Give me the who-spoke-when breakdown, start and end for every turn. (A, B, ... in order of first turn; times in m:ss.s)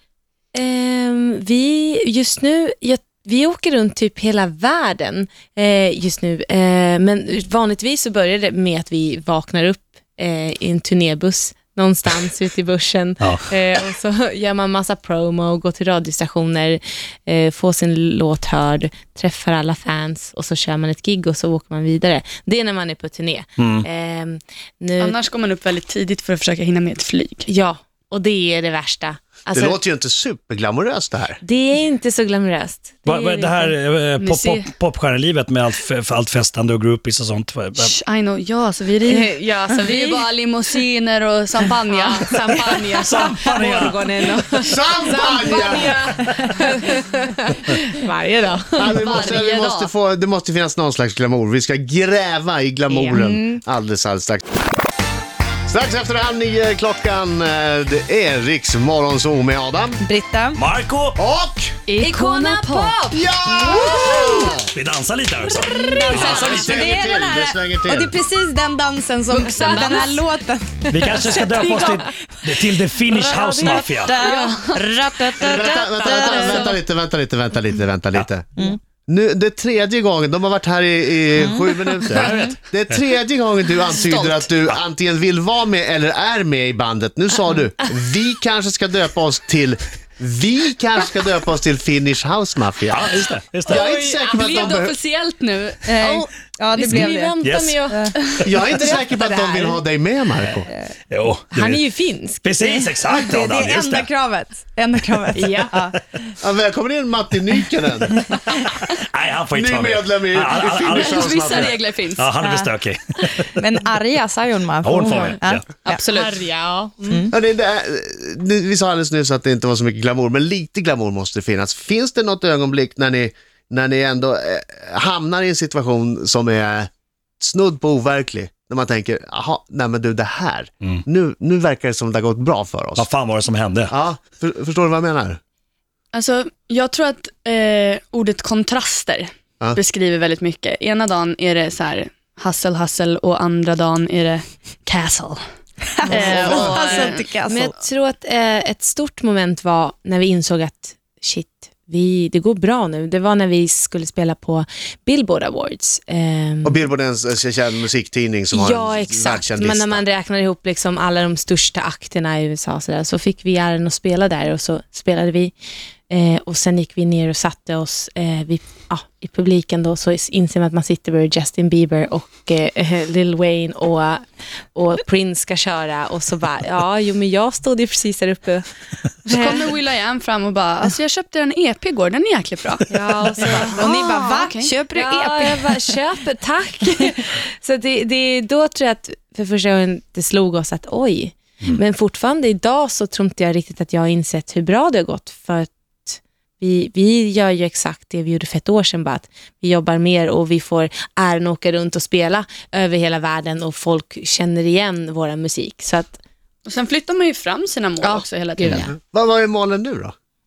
0:00.6-0:25.2 A
0:13.2-0:13.4 B
0:23.6-0:23.9 B
0:25.0-0:27.5 C
0:27.5-0:29.8 A
0:29.5-0:31.4 D
0:31.4-0:33.7 A
0:33.0-0:37.9 B
0:34.2-0:34.7 C
0:37.8-0:43.3 C
0:39.1-0:40.2 A
0:41.9-0:49.2 A
0:42.5-0:44.0 B
0:44.6-0:46.0 D
0:48.8-0:54.5 D
0:49.0-0:49.9 C
0:52.9-0:53.2 A
0:53.1-0:53.6 E
0:55.7-1:00.0 D
1:00.0-1:00.6 E
1:00.6-1:01.2 B
1:01.2-1:01.8 D
1:01.9-1:03.2 C
1:01.9-1:04.6 A
1:03.1-1:04.7 D
1:04.6-1:06.8 B
1:05.5-1:06.9 A
1:05.7-1:16.7 E
1:06.1-1:08.2 D
1:09.3-1:10.3 C
1:10.9-1:14.2 B
1:11.6-1:12.0 A
1:13.1-1:14.2 A
1:14.2-1:14.9 C
1:15.4-1:18.5 D
1:15.5-1:16.7 A
1:19.1-1:33.1 D
1:21.4-1:22.6 E
1:24.0-1:24.5 C
1:32.9-1:33.8 B
1:33.7-1:34.9 D
1:33.7-1:36.3 C
1:36.0-1:39.8 A
1:36.4-1:38.1 E
1:36.8-1:37.8 B
1:38.4-1:40.7 D
1:41.1-1:41.8 B
1:41.5-1:42.4 A
1:42.4-1:44.1 B
1:42.6-1:46.0 E
1:45.4-1:45.7 A
1:46.4-1:48.3 D
1:48.6-1:53.5 B
1:49.5-1:51.8 D
1:50.5-1:52.3 C
1:52.4-1:52.7 E
1:53.6-1:56.0 E
1:54.8-1:55.8 B
1:55.8-1:56.4 C
1:56.0-1:57.3 A
1:57.3-2:06.9 D
2:07.4-2:13.1 D
2:13.0-2:13.9 B
2:13.9-2:15.4 D
2:16.1-2:25.4 C
2:26.0-2:27.7 E
2:26.1-2:27.3 C
2:26.1-2:26.8 D
2:26.3-2:36.8 A
2:36.6-2:40.0 D
2:38.5-2:45.5 A
2:46.1-2:54.2 A
2:54.8-2:58.6 A
2:59.2-2:59.7 A
2:59.3-3:02.9 C
3:02.9-3:04.4 A
3:03.4-3:03.8 C
3:03.8-3:05.7 E
3:04.4-3:04.7 C
3:04.9-3:26.2 A
3:26.7-3:28.8 C
3:28.1-3:28.9 A
3:28.7-3:30.1 D